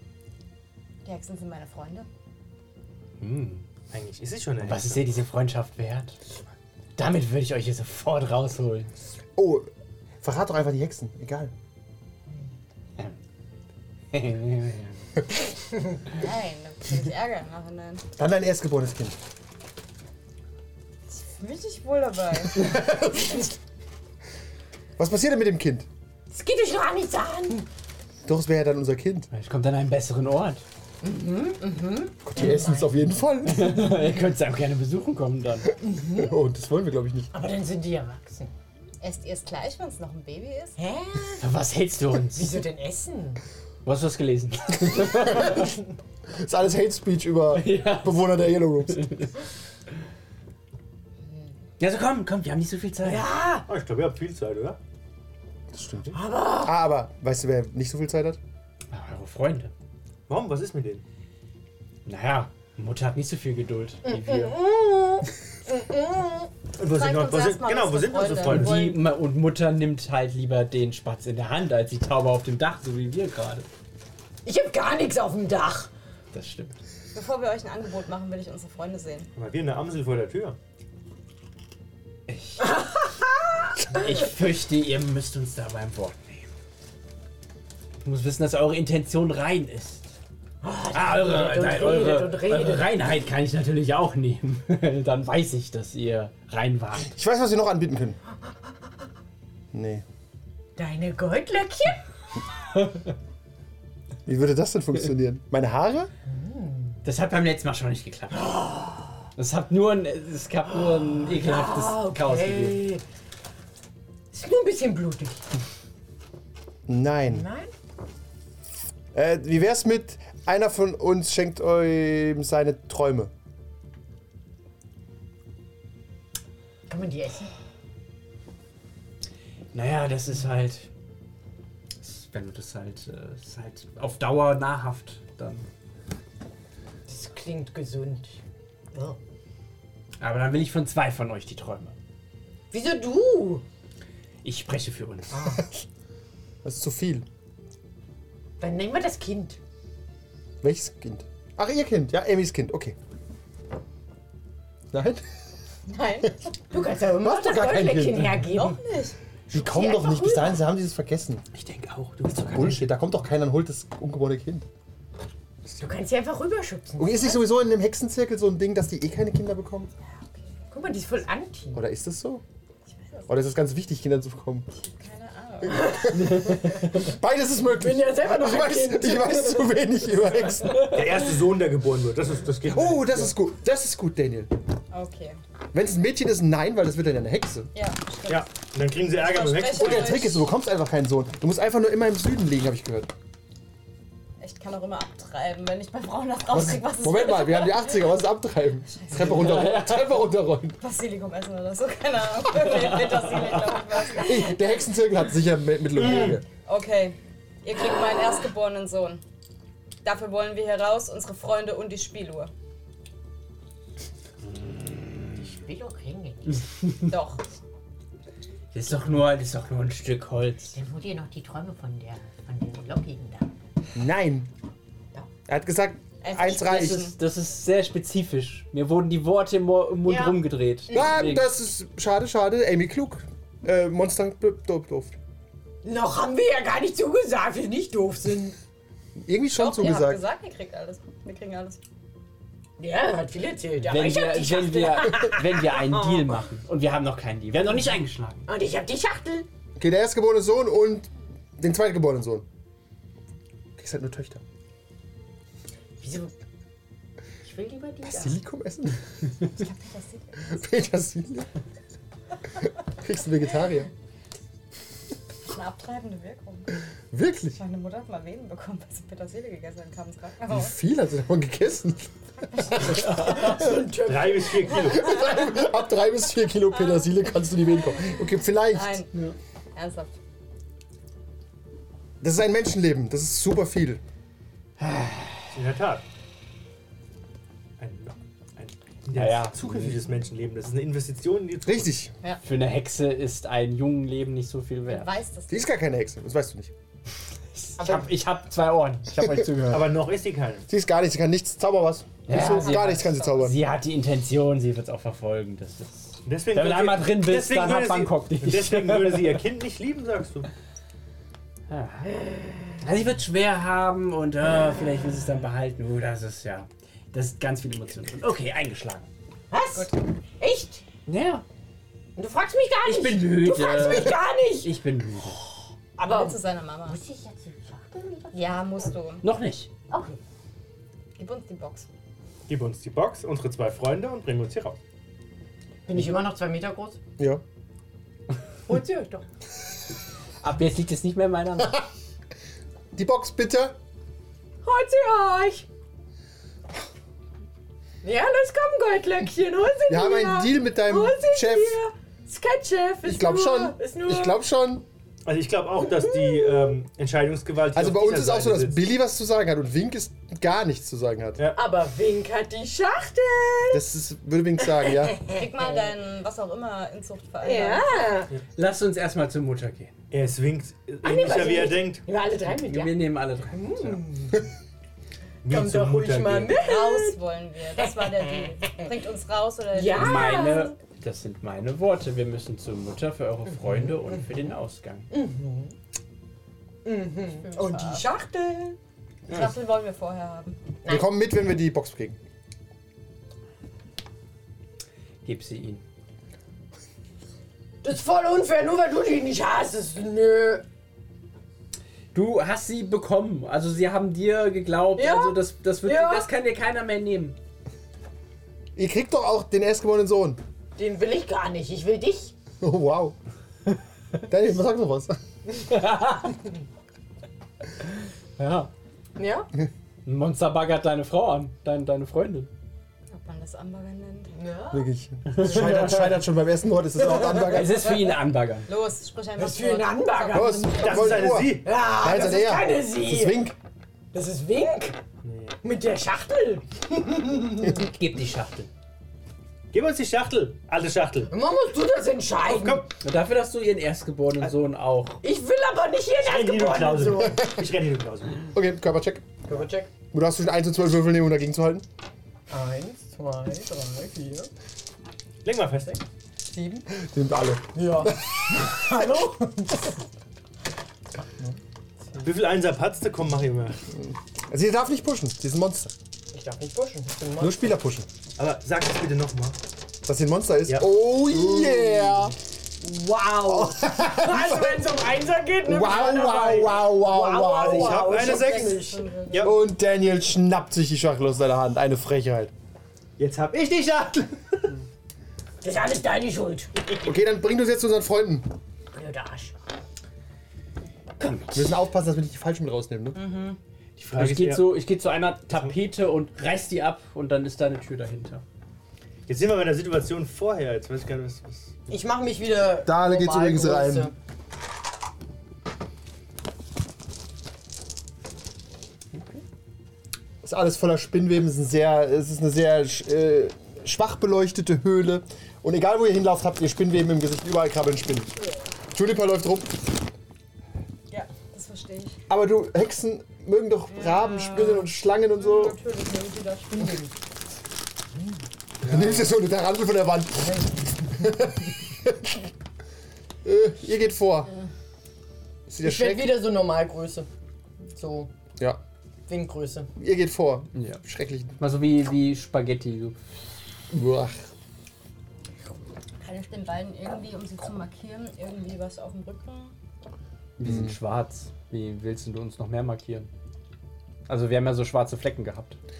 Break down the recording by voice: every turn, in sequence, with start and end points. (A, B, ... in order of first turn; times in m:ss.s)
0:01.0-0:02.1 A
0:03.2-0:03.6 B
0:03.7-0:05.1 C
0:04.6-0:06.2 B
0:07.0-0:08.9 B
0:09.4-0:09.7 D
0:10.2-0:11.5 D
0:14.1-0:15.0 B
0:16.0-0:18.0 A
0:18.2-0:19.2 D
0:21.1-0:22.8 A
0:22.5-0:23.5 D
0:25.0-0:25.9 D
0:26.3-0:27.7 E
0:28.3-0:29.3 D
0:29.3-0:30.6 B
0:31.0-0:33.1 E
0:32.2-0:33.9 D
0:33.4-0:35.7 B
0:35.8-0:36.3 E
0:36.0-0:37.3 D
0:37.3-0:38.5 E
0:39.0-0:40.8 A
0:40.8-0:41.5 E
0:41.4-0:42.6 B
0:42.3-0:43.4 E
0:43.8-0:45.6 B
0:44.9-0:45.6 D
0:46.4-0:49.1 D
0:47.5-0:49.3 B
0:51.8-0:53.3 B
0:53.0-0:53.7 E
0:53.7-0:54.8 C
0:55.7-0:58.4 D
0:56.1-0:56.8 E
0:58.9-0:59.7 B
1:00.3-1:01.0 C
1:02.1-1:04.6 B
1:04.0-1:06.5 E
1:06.8-1:08.9 C
1:06.9-1:09.0 A
1:08.4-1:13.7 B
1:14.4-1:15.9 E
1:16.3-1:16.8 B
1:17.1-1:19.3 A
1:19.4-1:20.6 C
1:22.3-1:22.8 B
1:22.7-1:23.3 E
1:23.9-1:26.5 B
1:28.0-1:30.1 B
1:30.6-1:32.9 E
1:30.9-1:37.1 B
1:37.1-1:38.2 D
1:39.7-1:40.0 D
1:40.8-1:42.0 E
1:42.8-1:43.0 B
1:44.3-1:46.1 D
1:46.3-1:47.0 E
1:47.0-1:48.8 B
1:48.4-1:48.9 E
1:49.4-1:52.8 B
1:51.1-1:53.0 E
1:54.3-1:55.4 E
1:56.9-1:57.5 D
1:57.3-1:57.7 E
1:59.1-2:03.3 D
2:06.9-2:07.5 E
2:09.7-2:10.9 B
2:12.0-2:15.7 B
2:17.1-2:18.4 E
2:18.9-2:19.2 E
2:20.2-2:22.0 B
2:22.7-2:23.6 E
2:24.4-2:25.4 B
2:25.3-2:25.6 E
2:26.6-2:27.3 D
2:28.6-2:29.6 E
2:30.6-2:33.0 D
2:34.9-2:35.2 D
2:35.9-2:36.4 A
2:36.7-2:38.8 E
2:37.0-2:38.4 D
2:38.5-2:39.2 A
2:39.5-2:41.4 D
2:39.5-2:40.7 E
2:41.5-2:42.9 C
2:42.5-2:44.7 D
2:45.8-2:47.4 E
2:47.0-2:49.9 D
2:50.7-2:51.8 E
2:51.7-2:52.4 D
2:52.9-2:53.4 A
2:53.3-2:54.7 D
2:54.7-2:56.0 A
2:55.8-3:01.0 D
2:56.0-2:56.6 E
2:56.1-2:57.1 B
2:57.6-2:59.8 E
3:00.7-3:01.0 B
3:00.9-3:03.3 C
3:02.7-3:04.5 D
3:04.9-3:05.4 A
3:05.7-3:07.7 D
3:07.8-3:08.5 A
3:08.3-3:10.4 C
3:09.1-3:10.4 A
3:09.8-3:13.1 D
3:14.4-3:18.0 A
3:16.5-3:20.8 D
3:19.0-3:19.3 A
3:19.2-3:20.1 B
3:20.8-3:24.7 A
3:22.8-3:23.2 B
3:24.2-3:26.4 D
3:26.0-3:29.2 A
3:30.0-3:32.5 A
3:34.6-3:35.4 B
3:35.4-3:36.9 E
3:37.1-3:37.4 A
3:38.7-3:40.8 B
3:40.8-3:43.5 E
3:44.0-3:44.5 D
3:45.5-3:47.1 D
3:46.2-3:47.1 A
3:46.6-3:51.4 B
3:50.0-3:51.1 E
3:50.9-3:55.2 D
3:55.8-3:58.6 E
3:59.2-4:00.2 D
3:59.6-4:01.8 A
4:02.8-4:06.3 E
4:03.8-4:08.5 B
4:07.6-4:09.5 E
4:09.8-4:12.4 D
4:13.8-4:14.4 D
4:16.0-4:16.3 E
4:17.4-4:18.4 E
4:18.0-4:19.2 D
4:19.4-4:20.6 A
4:20.4-4:21.5 D
4:22.9-4:23.9 D
4:25.5-4:26.8 A
4:27.1-4:27.6 D
4:27.5-4:30.7 A
4:30.5-4:32.1 D
4:32.8-4:35.0 E
4:32.9-4:33.6 B
4:33.9-4:35.2 C
4:34.9-4:39.0 D
4:38.7-4:39.1 A
4:39.7-4:40.1 A
4:42.2-4:44.0 D
4:44.8-4:45.5 B
4:45.5-4:46.0 C
4:47.8-4:51.9 C
4:49.1-4:50.0 B
4:51.6-4:52.1 D
4:52.4-4:55.2 B
4:54.9-4:55.7 A
4:55.5-4:56.7 D
4:57.6-5:00.0 B
4:57.8-4:58.1 E
4:59.2-4:59.9 D
4:59.7-5:00.7 C
5:00.7-5:03.6 D
5:02.3-5:09.4 B
5:02.3-5:02.8 E
5:02.5-5:03.4 A
5:06.2-5:10.5 C
5:11.7-5:12.2 B
5:12.8-5:19.1 B
5:19.5-5:20.8 E
5:21.1-5:21.4 B
5:22.2-5:24.8 E
5:22.8-5:25.4 B
5:26.0-5:29.0 E
5:26.0-5:27.0 A
5:28.3-5:29.2 A
5:29.2-5:29.7 B
5:29.9-5:30.2 E
5:31.2-5:31.9 A
5:32.5-5:34.8 C
5:35.9-5:37.0 E
5:38.7-5:39.2 E
5:40.4-5:41.9 B
5:42.9-5:43.8 D
5:44.6-5:45.7 E
5:48.0-5:54.4 E
5:49.9-5:51.8 D
5:53.0-5:54.8 D
5:55.3-5:58.8 C
5:56.3-5:56.6 E
5:57.8-6:01.4 D
6:01.6-6:03.8 E
6:03.7-6:05.2 D
6:04.6-6:06.0 E
6:05.3-6:08.1 A
6:07.4-6:08.3 E
6:08.6-6:10.0 B
6:10.1-6:12.1 C
6:11.0-6:14.5 E
6:12.5-6:14.0 B
6:15.4-6:16.6 C
6:15.5-6:17.2 E
6:16.5-6:20.5 A
6:17.7-6:18.8 E
6:19.7-6:20.7 E
6:19.9-6:25.1 B
6:23.6-6:24.5 E
6:25.1-6:25.7 E
6:26.8-6:28.8 E
6:27.4-6:28.0 A
6:29.3-6:30.6 A
6:30.9-6:32.2 D
6:35.2-6:35.8 B
6:37.8-6:40.6 E
6:42.1-6:47.4 B
6:45.0-6:46.3 E
6:48.8-6:50.4 D
6:50.8-6:52.3 E
6:52.6-6:53.2 D
6:54.3-6:55.2 D
6:55.7-6:56.4 B
6:58.4-6:58.7 B
6:59.2-6:59.5 E
7:00.0-7:02.5 B
7:03.1-7:04.4 A
7:04.4-7:06.2 E
7:04.7-7:08.0 D
7:05.3-7:06.0 B
7:07.0-7:07.6 E
7:07.4-7:08.7 B
7:08.7-7:11.3 A
7:09.4-7:13.4 E
7:10.3-7:13.6 D
7:10.8-7:11.7 C
7:14.1-7:15.0 E
7:15.2-7:15.6 C
7:15.6-7:17.9 E
7:17.8-7:18.7 B
7:19.7-7:21.3 C
7:21.3-7:22.9 E
7:22.4-7:22.9 C
7:23.0-7:25.2 B
7:25.2-7:27.5 E
7:26.2-7:28.5 C
7:28.5-7:29.4 D
7:29.5-7:29.9 E
7:30.1-7:31.8 D
7:32.5-7:34.5 E
7:35.4-7:36.0 C
7:36.4-7:36.9 E
7:36.9-7:39.1 D
7:37.8-7:40.0 E
7:42.2-7:43.8 C
7:43.9-7:45.9 D
7:46.3-7:47.6 E
7:47.4-7:48.1 D
7:48.4-7:49.6 C
7:50.0-7:52.4 D
7:51.3-7:52.2 E
7:52.8-7:59.1 E
7:53.4-7:54.9 D
7:55.6-7:58.3 D
7:57.6-7:59.6 C
7:58.2-7:59.6 A
7:59.4-8:02.5 D
8:03.2-8:04.8 C
8:05.6-8:06.8 E
8:07.0-8:08.5 D
8:08.9-8:09.5 E
8:11.2-8:11.8 B
8:11.5-8:13.2 D
8:13.1-8:13.6 A
8:14.0-8:14.8 C
8:14.0-8:18.4 B
8:19.3-8:22.0 C
8:21.9-8:24.1 E
8:22.8-8:24.1 D
8:29.1-8:29.4 B
8:30.4-8:38.3 D
8:38.9-8:39.9 D
8:41.1-8:42.2 A
8:42.3-8:45.8 D
8:43.9-8:47.1 A
8:48.8-8:49.3 C
8:48.8-8:52.5 D
8:53.4-8:54.5 D
8:55.7-8:56.5 D
8:55.8-8:57.3 E
8:58.0-8:58.3 E
8:59.3-8:59.9 E
9:00.0-9:01.6 D
9:00.8-9:01.0 B
9:01.6-9:03.2 B
9:03.9-9:04.4 D
9:06.2-9:09.7 A
9:10.6-9:13.3 B
9:10.6-9:11.0 D
9:14.3-9:15.8 B